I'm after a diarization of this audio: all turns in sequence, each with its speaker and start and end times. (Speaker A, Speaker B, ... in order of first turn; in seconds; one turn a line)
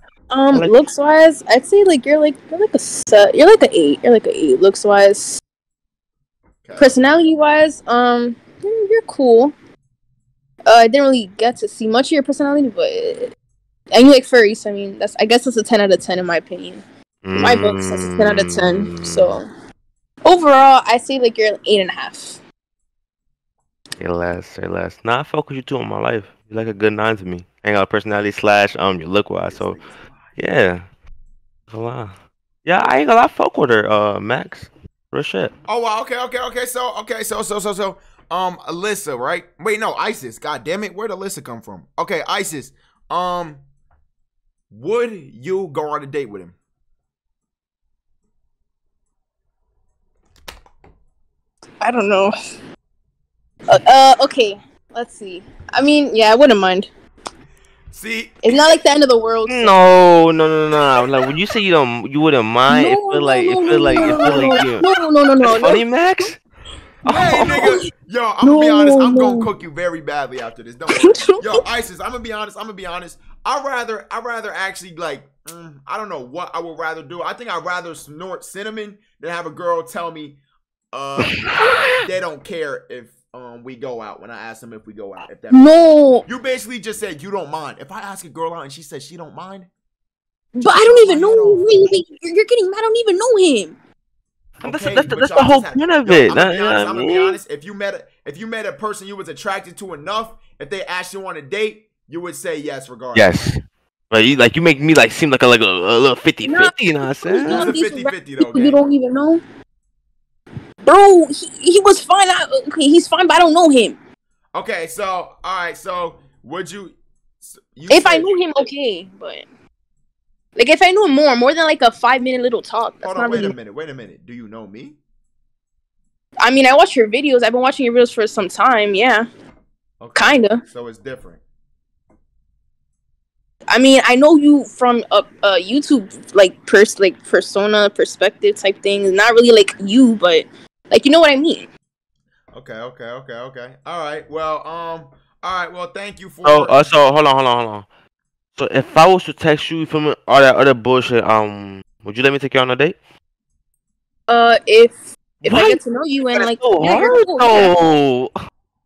Speaker A: 0.3-5.4
Speaker B: 6.6-6.9
Speaker A: 6.8-9.5
Speaker A: 10.7-13.3
Speaker A: 13.9-16.8
Speaker C: 17.2-19.4
Speaker A: 17.4-19.5
Speaker A: 20.2-22.4
Speaker C: 24.0-29.8
Speaker B: 29.4-30.4
Speaker C: 30.4-30.8
Speaker C: 31.7-32.1
Speaker C: 32.6-35.5
Speaker B: 35.7-43.6
Speaker B: 44.7-46.5
Speaker A: 51.8-52.3
Speaker A: 53.7-56.9
Speaker B: 57.9-58.4
Speaker A: 58.4-59.8
Speaker C: 59.5-64.8
Speaker A: 62.7-65.8
Speaker B: 63.9-64.9
Speaker C: 65.4-66.4
Speaker B: 67.0-80.4
Speaker C: 67.1-67.7
Speaker A: 67.2-67.8
Speaker A: 68.4-69.5
Speaker A: 71.0-71.4
Speaker B: 80.9-85.7
Speaker C: 81.2-82.0
Speaker A: 85.5-86.3
Speaker B: 86.3-89.7
Speaker A: 90.6-93.8
Speaker B: 90.7-91.9
Speaker C: 94.6-97.4
Speaker B: 94.6-103.4
Speaker C: 103.1-103.6
Speaker C: 104.1-107.7
Speaker A: 106.4-106.7
Speaker A: 107.2-109.4
Speaker B: 107.5-108.8
Speaker A: 110.8-114.0
Speaker B: 114.5-118.4
Speaker A: 117.9-119.5
Speaker A: 120.6-123.5
Speaker B: 123.0-125.0
Speaker A: 126.4-129.2
Speaker B: 130.0-131.4
Speaker A: 130.2-130.6
Speaker A: 133.7-141.7
Speaker B: 142.5-146.9
Speaker C: 146.4-147.9
Speaker C: 148.6-153.0
Speaker A: 154.3-157.7
Speaker C: 155.4-155.8
Speaker C: 156.3-158.3